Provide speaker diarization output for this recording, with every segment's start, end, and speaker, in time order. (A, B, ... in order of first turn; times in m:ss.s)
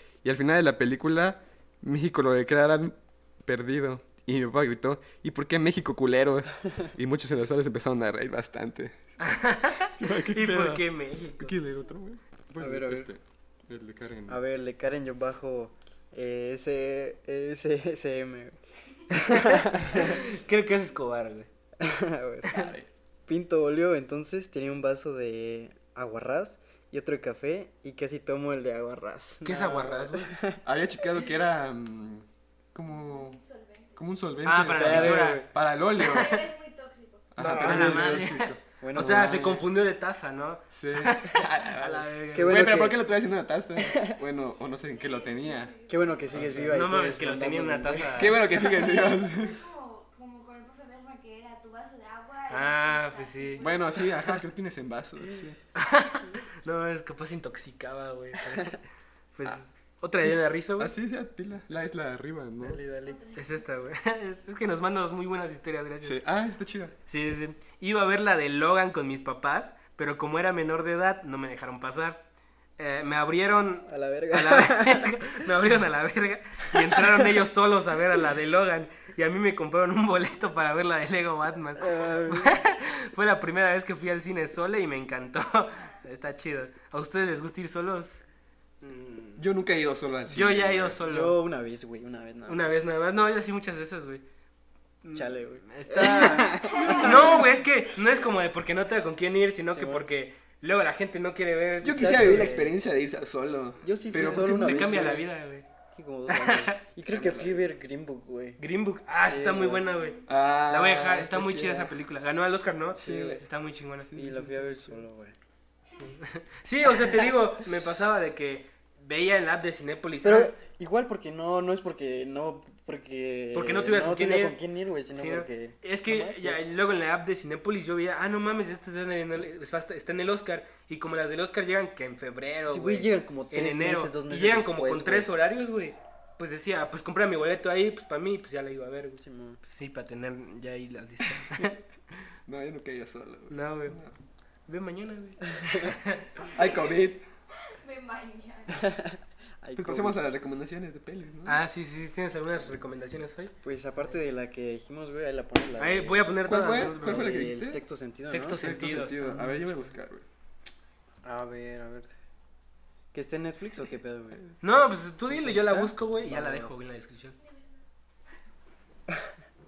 0:00.2-0:09.0 A
0:09.2-0:11.6 B
0:09.9-0:14.4 A
0:12.6-0:13.1 C
0:14.3-0:20.2 C
0:19.1-0:21.5 B
0:21.8-0:22.7 C
0:22.4-0:22.9 A
0:23.3-0:30.6 C
0:29.4-0:30.3 B
0:30.6-0:33.4 A
0:32.9-0:34.0 D
0:33.9-0:36.5 A
0:34.4-0:35.4 B
0:34.7-0:35.5 C
0:36.0-0:37.3 D
0:36.0-0:36.4 B
0:37.3-0:39.6 A
0:37.4-0:42.8 B
0:37.4-0:38.2 C
0:38.8-0:39.6 C
0:40.7-0:45.8 A
0:42.3-0:43.1 C
0:43.8-0:44.2 C
0:44.8-0:46.3 D
0:45.9-0:48.8 C
0:46.3-0:46.8 A
0:46.4-0:48.4 B
0:48.0-0:49.6 A
0:48.5-0:54.1 D
0:52.5-0:53.7 B
0:53.6-0:55.6 A
0:55.7-0:58.8 B
0:59.3-1:00.9 B
1:00.2-1:02.8 A
1:02.6-1:03.2 C
1:03.0-1:03.7 D
1:03.3-1:06.2 B
1:06.0-1:07.0 A
1:07.1-1:12.2 B
1:12.8-1:28.2 B
1:13.9-1:15.3 C
1:16.8-1:17.2 C
1:21.8-1:22.6 C
1:28.8-1:29.4 B
1:29.4-1:31.0 A
1:30.3-1:31.4 B
1:31.0-1:32.8 C
1:32.5-1:34.2 B
1:35.0-1:42.7 B
1:35.1-1:37.4 C
1:36.7-1:37.5 A
1:36.7-1:37.0 D
1:39.7-1:40.1 C
1:41.8-1:45.2 A
1:41.8-1:42.7 C
1:43.8-1:45.2 C
1:44.1-1:45.7 B
1:45.9-1:48.6 C
1:46.3-1:46.8 B
1:47.1-1:47.6 A
1:48.6-1:54.1 B
1:49.2-1:49.8 C
1:50.3-1:51.9 A
1:52.9-1:53.4 C
1:52.9-1:53.4 A
1:54.0-1:55.0 A
1:54.1-1:55.4 C
1:56.0-2:00.5 B
1:56.9-1:57.3 C
2:00.2-2:06.6 C
2:03.5-2:04.6 B
2:05.1-2:21.8 B
2:12.7-2:15.3 C
2:19.2-2:19.6 C
2:22.5-2:24.1 A
2:23.5-2:24.0 B
2:24.6-2:26.3 B
2:26.4-2:27.2 A
2:27.8-2:29.0 D
2:28.7-2:30.2 C
2:29.8-2:31.6 A
2:31.4-2:33.5 B
2:33.6-2:38.7 C
2:35.8-2:37.5 B
2:36.4-2:37.8 A
2:38.3-2:39.9 B
2:38.5-2:40.2 A
2:41.2-2:42.1 C
2:43.1-2:44.4 C
2:44.6-2:47.4 B
2:45.3-2:46.7 C
2:47.4-2:47.8 D